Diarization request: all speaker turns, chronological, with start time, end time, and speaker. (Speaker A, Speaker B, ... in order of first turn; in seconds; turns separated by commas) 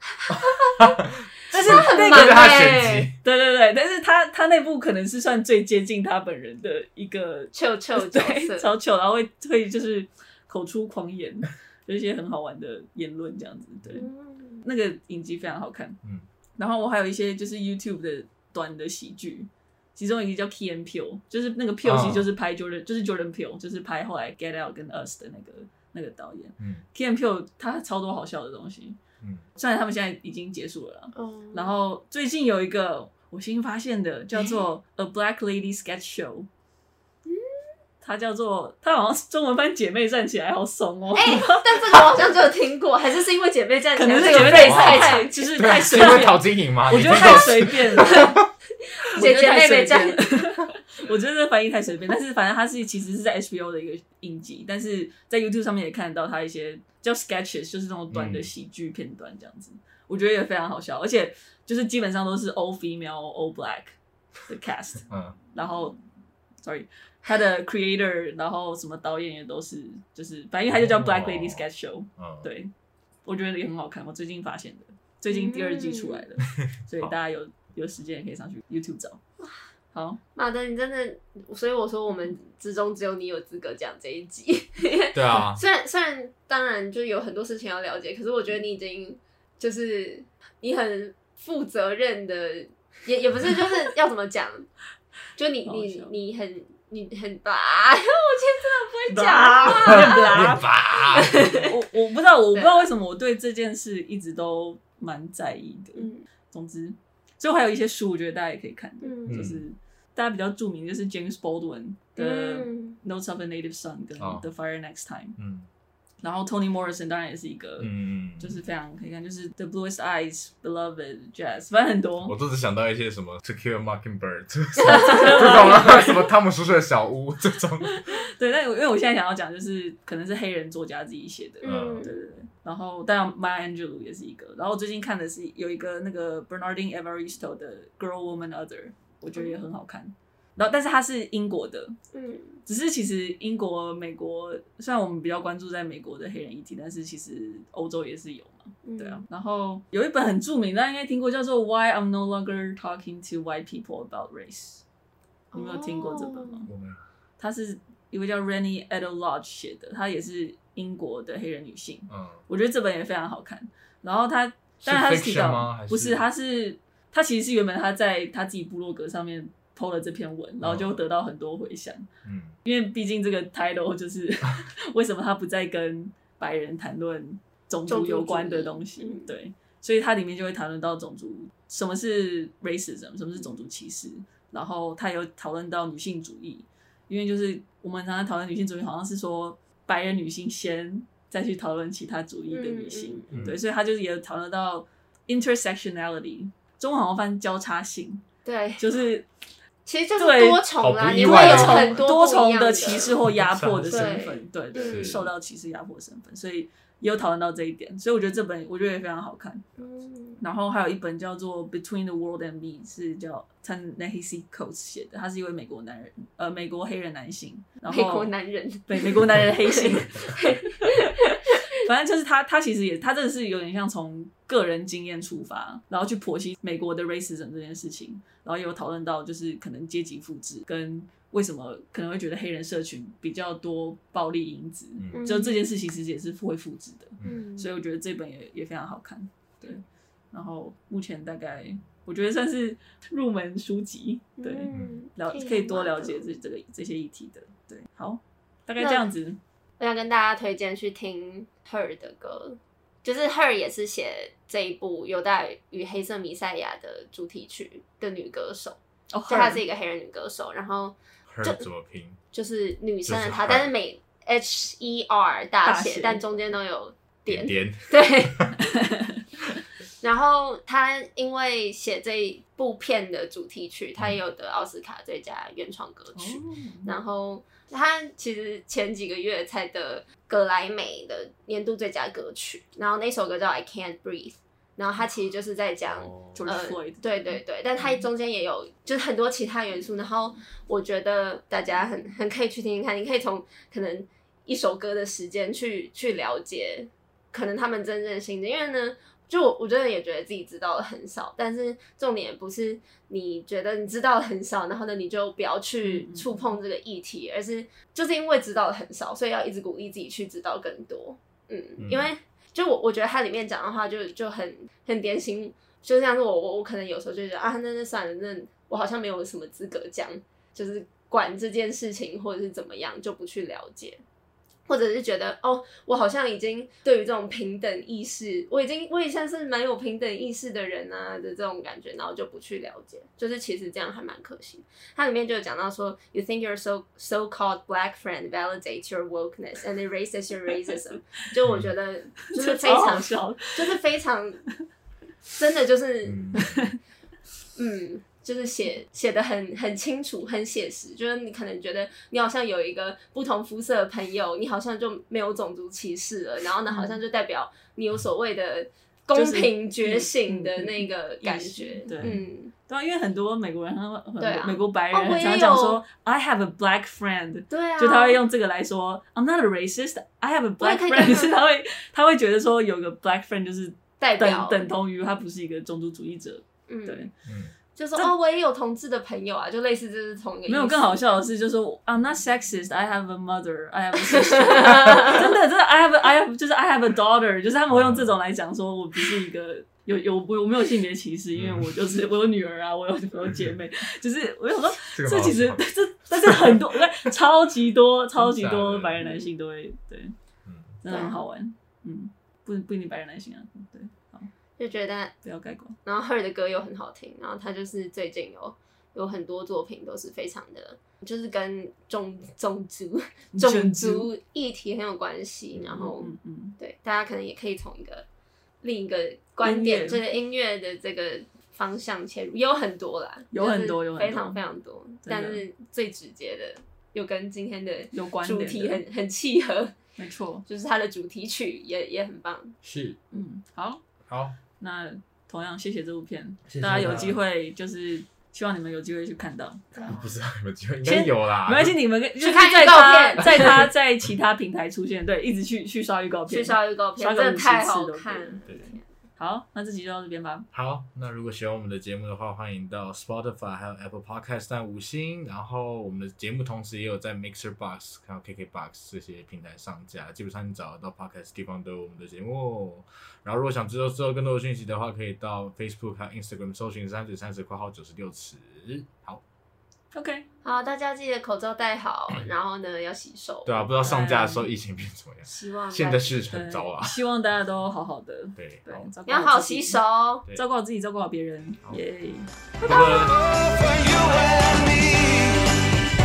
Speaker A: 0.2-0.9, Speaker B: 0.3-3.1, Speaker C: 1.5-2.6, Speaker A: 1.5-3.1, Speaker C: 3.2-14.1, Speaker A: 7.5-8.7, Speaker A: 13.9-14.6, Speaker C: 14.6-16.0, Speaker C: 16.6-29.0, Speaker B: 21.8-22.3, Speaker B: 26.6-26.8, Speaker C: 29.6-36.5, Speaker A: 31.1-31.7, Speaker A: 34.3-34.6, Speaker A: 37.2-37.5, Speaker C: 38.0-42.2, Speaker A: 41.1-46.2, Speaker C: 44.0-48.3, Speaker B: 44.2-48.4, Speaker A: 48.0-48.3, Speaker A: 49.0-50.2, Speaker C: 49.1-66.0, Speaker B: 58.1-58.5, Speaker B: 65.1-65.3, Speaker C: 66.6-72.7, Speaker B: 70.7-71.6, Speaker B: 72.2-72.5, Speaker C: 73.2-79.2, Speaker A: 75.3-76.2, Speaker B: 76.6-77.1, Speaker C: 79.9-80.2, Speaker A: 80.3-94.7, Speaker B: 85.1-85.6, Speaker A: 95.3-100.5, Speaker C: 95.6-96.1, Speaker C: 99.1-100.7, Speaker B: 99.6-101.7, Speaker A: 101.0-101.7, Speaker C: 101.6-115.4, Speaker A: 102.5-102.9, Speaker A: 106.0-106.2, Speaker A: 109.0-109.5, Speaker B: 109.3-109.6, Speaker A: 112.2-113.0, Speaker B: 114.2-114.4, Speaker B: 115.4-115.7, Speaker C: 116.2-122.3, Speaker B: 117.8-118.6, Speaker B: 122.2-128.0, Speaker C: 124.8-126.2, Speaker C: 128.0-141.9, Speaker A: 131.6-132.2, Speaker B: 131.6-132.1, Speaker A: 139.3-139.6, Speaker A: 142.1-142.6, Speaker C: 142.7-154.8, Speaker A: 148.8-149.2, Speaker A: 155.5-156.7, Speaker C: 155.5-156.7, Speaker B: 156.7-157.0, Speaker C: 157.4-172.1, Speaker B: 162.1-162.4, Speaker B: 164.8-166.2, Speaker B: 170.6-170.9, Speaker B: 172.2-172.6, Speaker C: 172.6-198.2, Speaker A: 177.9-179.3, Speaker A: 192.5-193.3, Speaker B: 193.3-193.6, Speaker A: 198.4-198.9, Speaker C: 198.8-199.3, Speaker A: 199.8-203.2, Speaker C: 200.2-200.6, Speaker B: 200.8-202.0, Speaker C: 201.1-209.7, Speaker B: 203.2-204.2, Speaker A: 203.9-205.2, Speaker B: 204.7-205.3, Speaker A: 209.8-210.4, Speaker C: 210.4-218.3, Speaker A: 217.9-221.6, Speaker C: 218.9-249.4, Speaker B: 235.0-235.3, Speaker A: 235.1-235.6, Speaker A: 237.2-237.7, Speaker A: 244.4-246.3, Speaker B: 244.7-245.0, Speaker A: 248.8-249.0, Speaker A: 249.8-261.6, Speaker C: 259.1-259.6, Speaker B: 261.3-262.2, Speaker A: 262.3-268.5, Speaker B: 263.0-263.7, Speaker C: 265.6-266.2, Speaker B: 267.3-268.6, Speaker C: 268.6-269.6, Speaker A: 270.0-324.0, Speaker C: 276.1-276.9, Speaker B: 285.9-286.4, Speaker C: 286.3-288.0, Speaker C: 305.8-306.5, Speaker B: 311.8-312.1, Speaker A: 324.7-344.4, Speaker B: 341.5-341.7, Speaker C: 342.3-343.7, Speaker A: 345.3-346.5, Speaker B: 346.0-346.6, Speaker C: 346.4-346.7, Speaker A: 347.6-362.5, Speaker C: 356.7-357.0, Speaker C: 359.1-377.1, Speaker B: 362.0-362.3, Speaker A: 364.2-365.8, Speaker A: 367.5-368.2, Speaker A: 370.6-371.4, Speaker A: 374.0-374.7, Speaker A: 376.7-377.1, Speaker B: 377.2-377.5, Speaker A: 377.8-380.9, Speaker C: 380.5-400.1, Speaker A: 384.4-385.2, Speaker B: 387.7-388.1, Speaker B: 391.3-391.7, Speaker B: 393.2-393.6, Speaker B: 394.9-396.8, Speaker B: 398.2-399.1, Speaker B: 400.4-400.7, Speaker C: 400.8-404.3, Speaker A: 400.9-401.2, Speaker A: 404.6-405.1, Speaker C: 405.2-405.8, Speaker A: 405.8-418.0, Speaker C: 413.3-414.1, Speaker C: 415.7-416.6, Speaker A: 418.6-429.8, Speaker C: 419.4-420.0, Speaker C: 423.3-424.4, Speaker C: 425.0-425.4, Speaker C: 427.9-428.8, Speaker C: 430.0-430.4, Speaker A: 430.5-432.6, Speaker B: 432.6-433.0, Speaker C: 433.1-433.8, Speaker B: 434.1-434.4, Speaker C: 434.6-440.0, Speaker B: 436.5-437.2, Speaker B: 439.9-441.8, Speaker C: 440.8-448.6, Speaker A: 442.2-443.7, Speaker A: 446.3-448.8, Speaker C: 449.2-450.5, Speaker B: 450.5-469.2, Speaker C: 469.9-470.3, Speaker A: 470.4-473.7, Speaker B: 473.4-477.0, Speaker C: 473.8-474.5, Speaker A: 475.3-476.2, Speaker C: 476.3-479.8, Speaker B: 478.4-478.9, Speaker A: 479.1-480.3, Speaker C: 480.3-482.3, Speaker B: 482.6-483.2, Speaker A: 482.6-483.1, Speaker D: 482.9-485.8